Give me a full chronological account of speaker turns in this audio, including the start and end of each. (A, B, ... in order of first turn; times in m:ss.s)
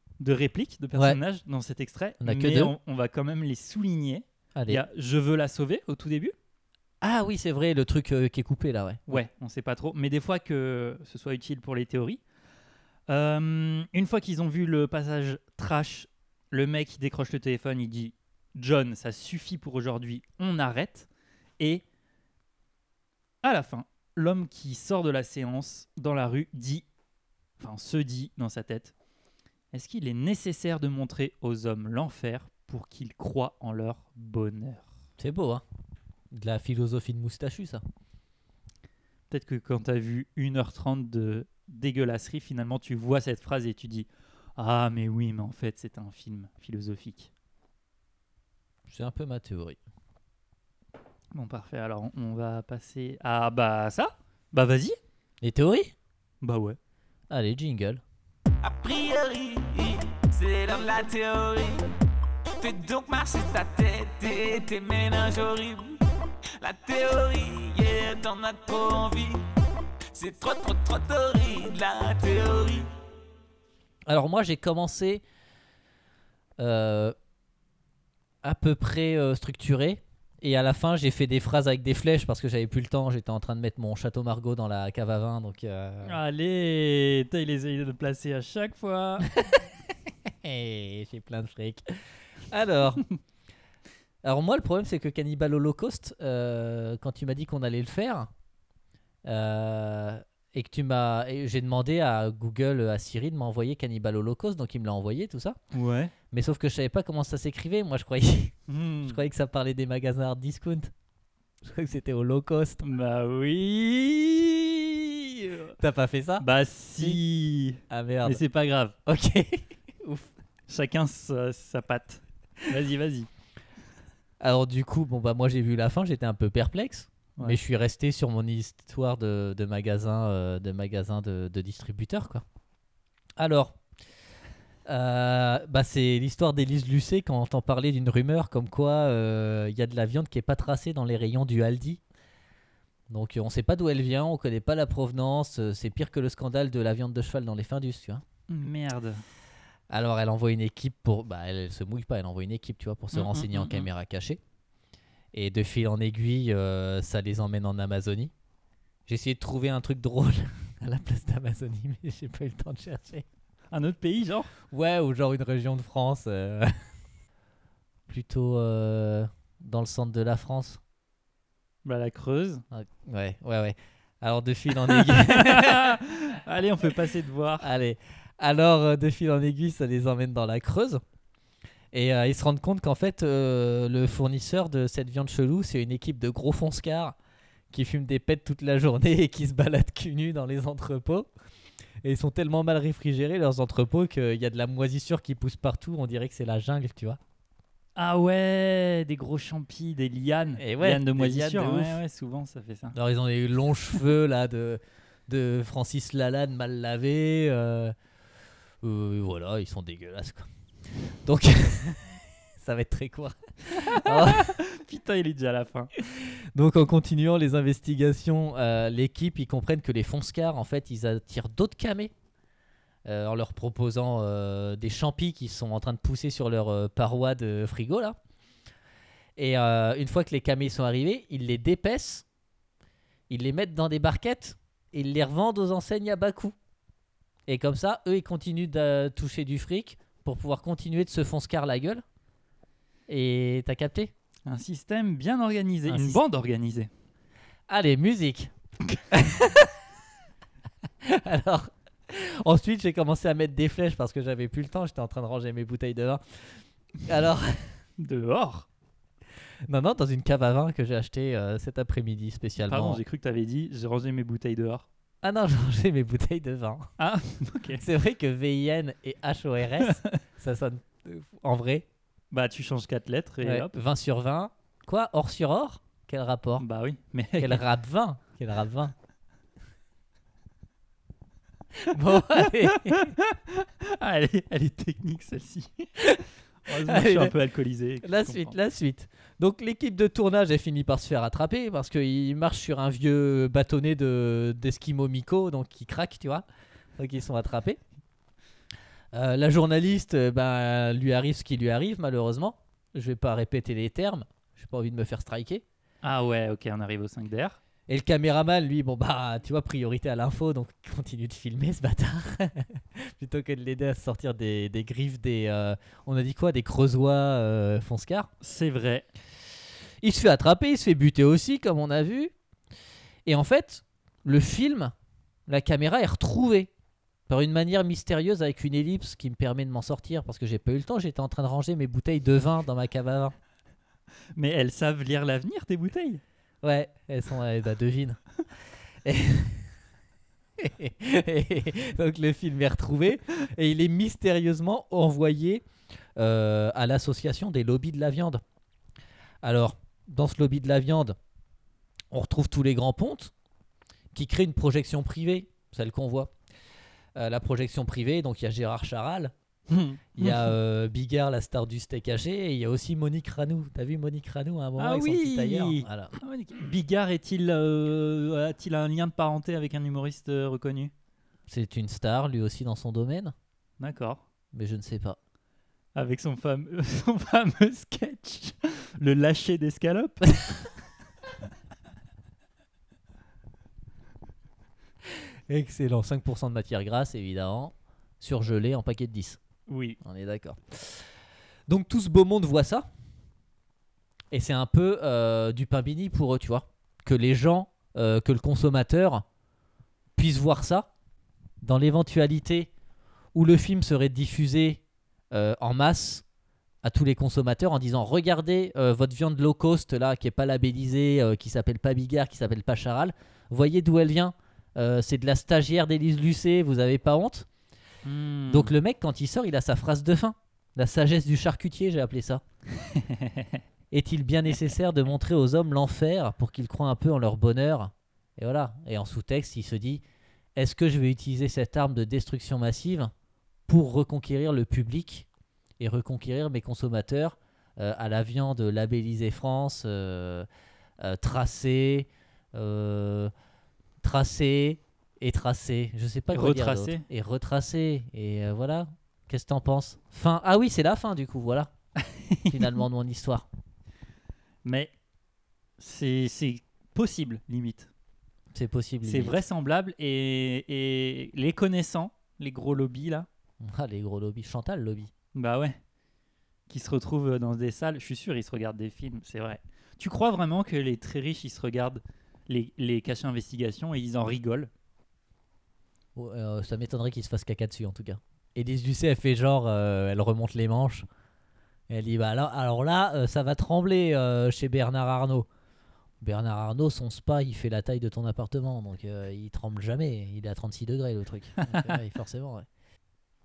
0:00.2-0:06.3 A
0:02.2-0:02.7 B
0:04.5-0:04.8 B
0:07.0-0:09.2 B
0:09.1-0:12.2 A
0:13.1-0:21.8 A
0:23.4-0:26.8 A
0:27.6-0:28.9 A
0:29.7-0:34.9 A
0:35.2-0:35.6 B
0:36.3-0:37.8 B
0:39.3-0:47.3 A
0:48.9-0:49.8 B
0:51.3-0:55.0 A
0:55.4-0:55.9 B
0:56.4-0:56.8 A
0:57.3-0:58.0 B
0:58.6-1:01.8 C
1:02.6-1:06.0 C
1:06.6-1:09.4 C
1:10.1-1:12.9 C
1:14.1-1:15.2 B
1:16.6-1:17.1 B
1:18.4-1:26.2 B
1:26.0-1:29.3 A
1:29.3-1:29.6 B
1:30.3-1:31.8 B
1:32.5-1:33.0 B
1:34.2-1:38.3 B
1:39.2-1:45.6 B
1:45.7-1:46.1 A
1:46.3-1:50.9 B
1:48.7-1:49.2 A
1:51.6-1:52.8 B
1:52.8-1:55.7 A
1:55.8-1:56.4 B
1:56.4-1:59.0 A
1:57.9-1:58.4 B
1:59.0-2:00.3 B
2:00.7-2:03.3 A
2:04.4-2:12.4 B
2:13.4-2:13.8 B
2:14.8-2:22.0 B
2:23.1-2:28.2 B
2:28.5-2:29.2 A
2:29.9-2:34.4 B
2:33.1-2:33.9 A
2:35.3-2:38.3 B
2:39.1-2:43.2 B
2:43.7-2:44.5 A
2:44.7-2:46.7 B
2:48.1-2:50.8 B
2:51.8-2:52.6 A
2:52.7-2:56.0 B
2:54.8-2:57.7 A
2:57.6-3:01.0 B
3:01.9-3:07.2 B
3:07.7-3:11.3 B
3:12.0-3:17.2 B
3:18.0-3:22.9 A
3:20.6-3:22.0 B
3:22.9-3:27.9 B
3:28.8-3:30.5 B
3:31.2-3:34.6 B
3:33.7-3:35.9 A
3:36.0-3:42.1 B
3:43.0-3:48.2 B
3:49.4-3:52.2 B
3:53.3-3:56.5 B
3:57.5-4:02.0 B
4:03.1-4:04.1 B
4:04.4-4:06.9 A
4:05.9-4:06.2 B
4:07.7-4:08.5 B
4:09.1-4:09.7 B
4:11.0-4:16.2 B
4:17.0-4:17.7 B
4:18.0-4:18.7 A
4:19.7-4:23.0 B
4:22.7-4:24.9 A
4:25.2-4:26.9 B
4:27.0-4:27.8 A
4:27.8-4:31.9 B
4:29.8-4:30.0 A
4:32.3-4:33.8 A
4:33.4-4:36.6 B
4:36.6-4:37.6 A
4:37.4-4:38.9 B
4:41.8-4:43.1 B
4:42.4-4:45.9 A
4:46.6-4:48.5 A
4:46.8-4:47.3 B
4:48.0-4:56.4 B
4:57.0-4:57.8 B
4:59.1-5:05.6 B
5:06.0-5:07.6 A
5:07.9-5:18.3 B
5:18.4-5:19.1 A
5:20.0-5:22.3 B
5:23.2-5:24.9 B
5:25.5-5:26.7 B
5:27.3-5:33.3 B
5:34.3-5:36.2 A
5:36.6-5:38.2 B
5:39.0-5:39.7 B
5:40.6-5:45.6 B
5:46.2-5:48.4 B
5:49.4-5:51.2 B
5:52.1-5:53.3 B
5:54.1-5:56.3 B
5:57.2-5:59.3 B
5:59.7-6:00.5 A
6:00.2-6:06.2 B
6:04.8-6:10.9 A
6:11.5-6:13.3 B
6:13.8-6:14.2 A
6:14.5-6:15.2 B
6:15.9-6:20.7 A
6:25.5-6:29.4 B
6:29.7-6:30.0 A
6:30.0-6:31.0 B
6:31.7-6:32.8 B
6:34.3-6:39.2 B
6:40.2-6:40.9 B
6:41.6-6:42.7 B
6:43.3-6:46.2 B
6:46.8-6:57.5 B
6:58.0-6:58.7 A
6:58.5-7:02.4 B
7:02.8-7:03.6 A
7:03.9-7:10.0 B
7:10.6-7:13.1 B
7:13.7-7:15.3 B
7:15.8-7:20.5 B
7:21.0-7:23.3 B
7:24.0-7:31.7 B
7:26.3-7:27.0 A
7:32.1-7:32.7 A
7:32.4-7:33.5 B
7:34.6-7:34.9 A
7:35.8-7:37.9 A
7:38.5-7:39.4 B
7:39.0-7:43.3 A
7:43.6-7:45.1 B
7:45.3-7:45.8 A
7:46.7-7:54.7 A
7:56.2-8:01.0 B
8:01.9-8:05.5 B
8:06.2-8:12.7 B
8:11.7-8:12.0 A